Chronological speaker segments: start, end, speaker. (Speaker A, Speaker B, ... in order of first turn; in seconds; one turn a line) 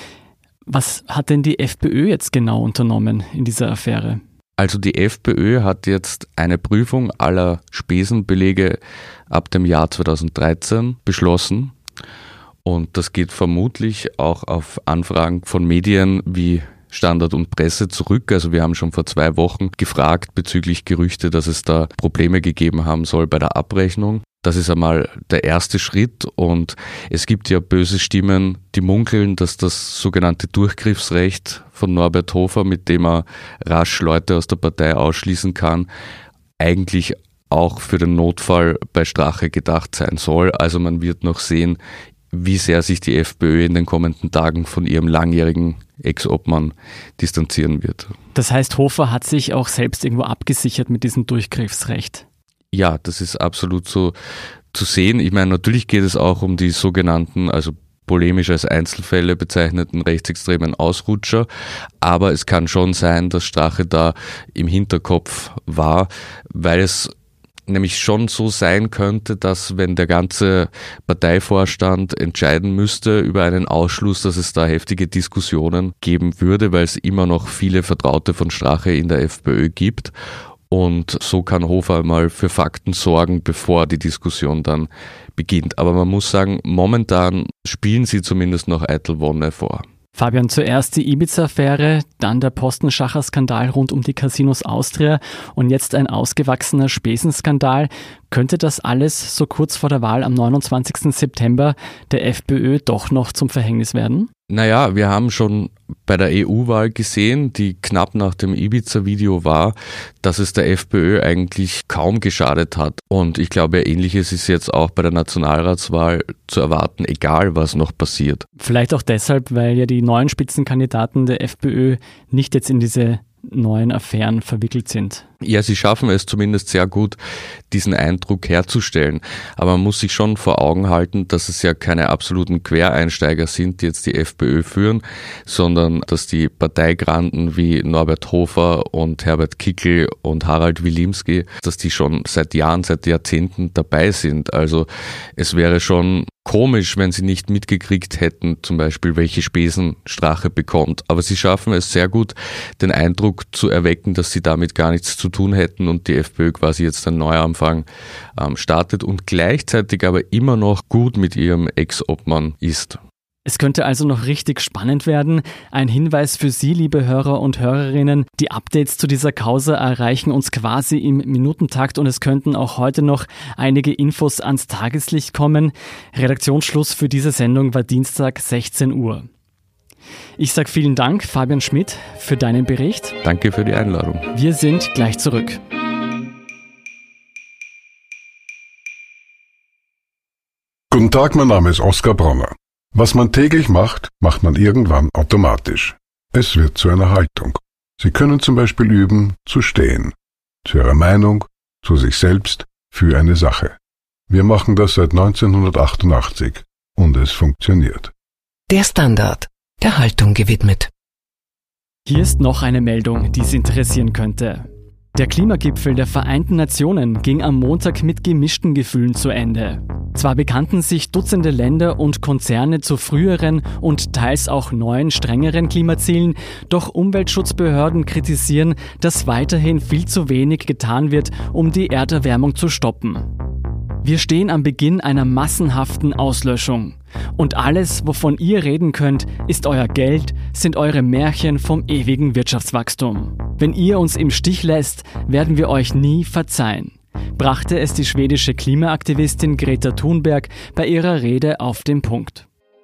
Speaker A: 0.7-4.2
Speaker B: 4.6-11.7
Speaker B: 12.6-35.9
Speaker B: 36.6-41.8
Speaker B: 42.3-48.1
Speaker A: 48.3-52.2
Speaker B: 52.7-54.1
Speaker B: 54.7-61.5
Speaker B: 62.0-67.1
Speaker B: 67.7-80.1
Speaker B: 80.7-89.8
Speaker A: 90.1-104.3
Speaker B: 104.5-118.5
Speaker A: 118.6-125.2
Speaker B: 125.4-127.2
Speaker B: 127.7-163.0
Speaker A: 163.4-179.3
Speaker A: 180.4-183.2
Speaker B: 183.2-184.3
Speaker A: 184.3-185.6
Speaker C: 190.9-200.1
Speaker C: 200.6-203.8
Speaker C: 204.3-208.1
Speaker D: 208.7-210.9
Speaker A: 212.1-233.3
Speaker A: 234.0-252.5